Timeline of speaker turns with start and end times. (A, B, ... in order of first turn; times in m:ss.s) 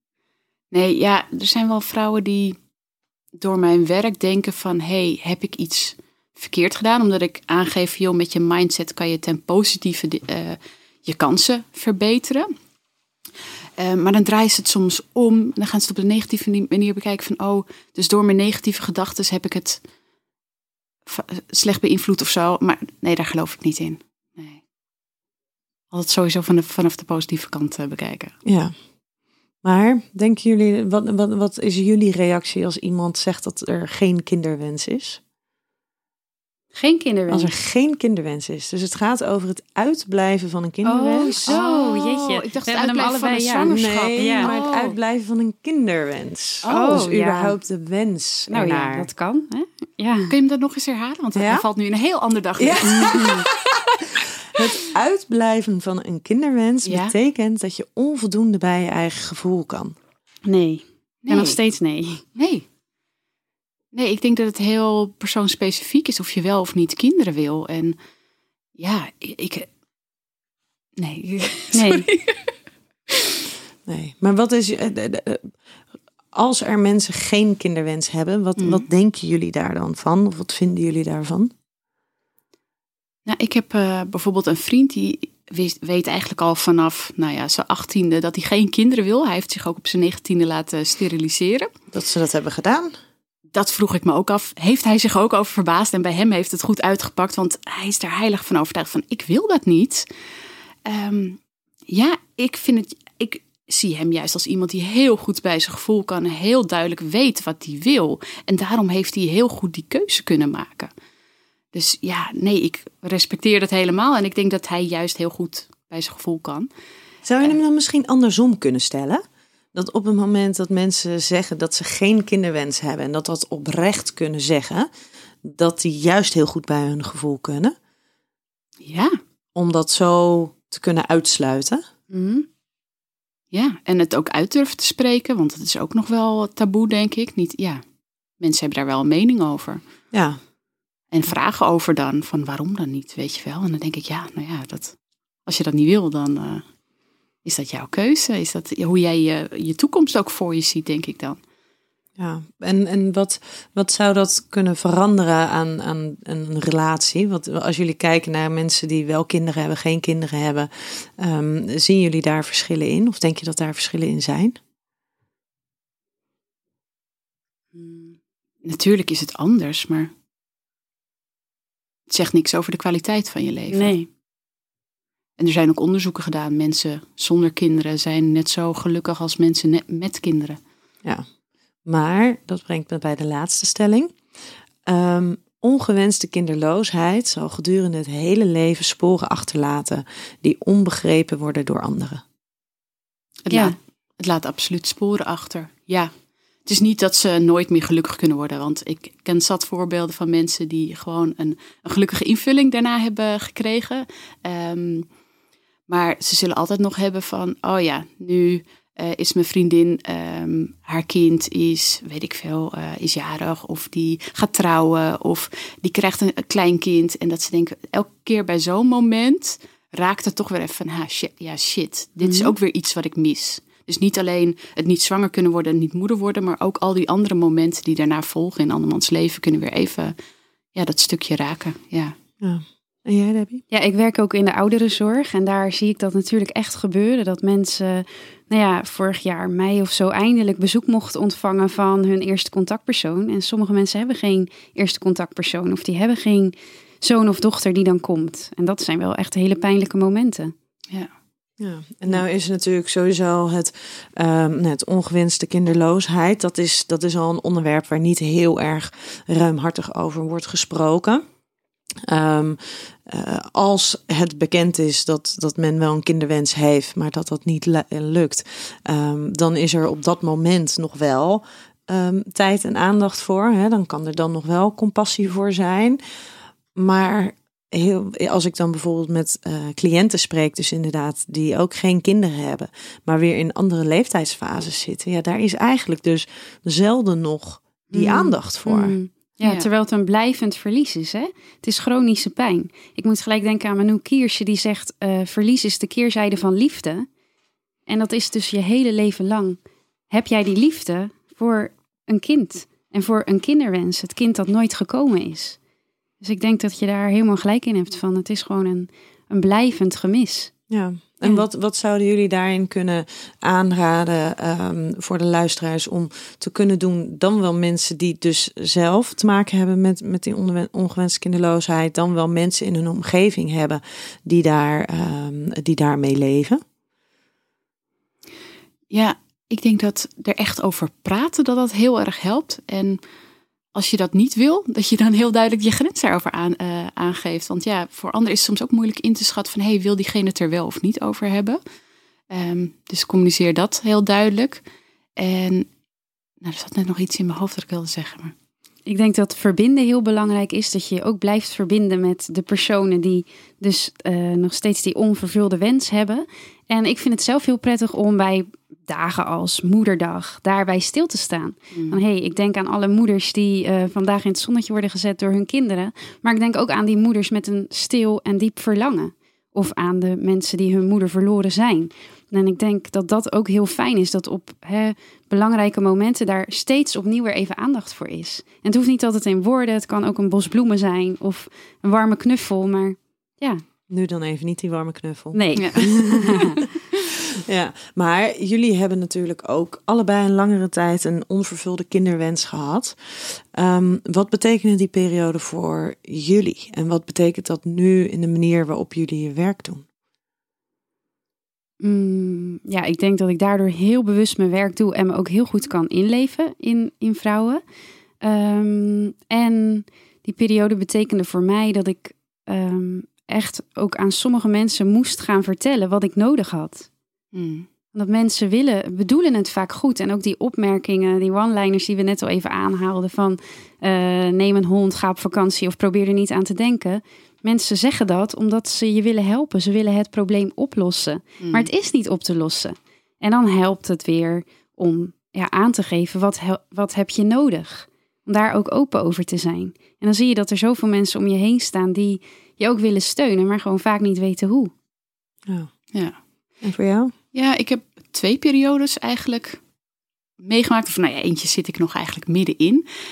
0:00.7-0:02.6 A
0:03.4-0:12.5 A
0:13.8-0:19.8 A
0:21.1-0:24.6 A
0:25.9-0:28.3 A
0:28.4-0:28.7 B
0:29.6-0:35.2 B
0:36.7-0:37.5 C
0:37.3-0:41.4 B
0:40.8-0:44.5 C
0:41.4-0:45.0 A
0:43.6-0:49.1 B
0:46.6-0:47.1 A
0:46.7-0:47.5 C
0:48.5-0:50.3 C
0:50.3-0:53.8 A
0:51.3-0:51.6 B
0:52.6-0:53.4 B
0:52.8-0:53.4 C
0:54.5-0:59.9 B
0:56.8-0:57.1 A
1:00.5-1:02.2 C
1:01.2-1:01.6 A
1:02.4-1:02.6 A
1:03.9-1:08.0 A
1:08.8-1:09.7 A
1:11.0-1:12.5 A
1:11.7-1:12.0 C
1:13.8-1:15.5 B
1:16.3-1:21.5 B
1:18.6-1:18.8 A
1:23.2-1:31.7 A
1:31.9-1:32.9 B
1:33.5-1:40.0 A
1:40.8-1:50.9 A
1:51.7-1:56.7 A
1:57.2-1:59.2 B
1:59.7-2:04.9 B
2:05.4-2:07.7 B
2:08.8-2:09.2 A
2:09.5-2:11.8 B
2:12.1-2:12.4 C
2:13.5-2:17.8 A
2:18.4-2:19.8 A
2:20.1-2:20.4 B
2:21.1-2:26.6 A
2:27.4-2:31.4 A
2:32.2-2:44.6 B
2:47.7-2:48.1 C
2:48.6-2:50.1 A
2:52.1-2:53.9 A
2:53.7-2:54.1 C
2:55.4-3:00.6 A
3:01.8-3:04.1 B
3:04.8-3:12.2 B
3:13.5-3:16.1 A
3:16.6-3:25.1 A
3:25.9-3:50.1 A
3:42.2-3:42.5 C
3:50.7-3:52.1 A
3:52.4-3:53.6 B
3:53.7-4:10.5 C
4:11.6-4:21.2 B
4:22.0-4:36.0 B
4:36.8-4:49.0 B
4:47.9-4:57.1 C
4:57.9-4:59.6 C
5:00.1-5:05.6 C
5:06.2-5:10.5 C
5:10.7-5:26.6 B
5:28.9-5:33.0 A
5:33.7-5:41.6 A
5:42.3-5:44.6 A
5:45.2-5:45.7 A
5:46.4-5:48.3 A
5:48.9-6:23.6 C
6:01.7-6:02.0 A
6:23.9-6:26.4 B
6:25.3-6:26.6 C
6:27.4-6:39.8 B
6:41.8-6:47.6 C
6:48.2-6:56.9 C
6:57.3-6:57.7 A
6:57.9-7:24.7 C
7:11.4-7:11.7 A
7:26.6-7:27.1 B
7:27.3-7:29.6 A
7:30.4-7:32.8 A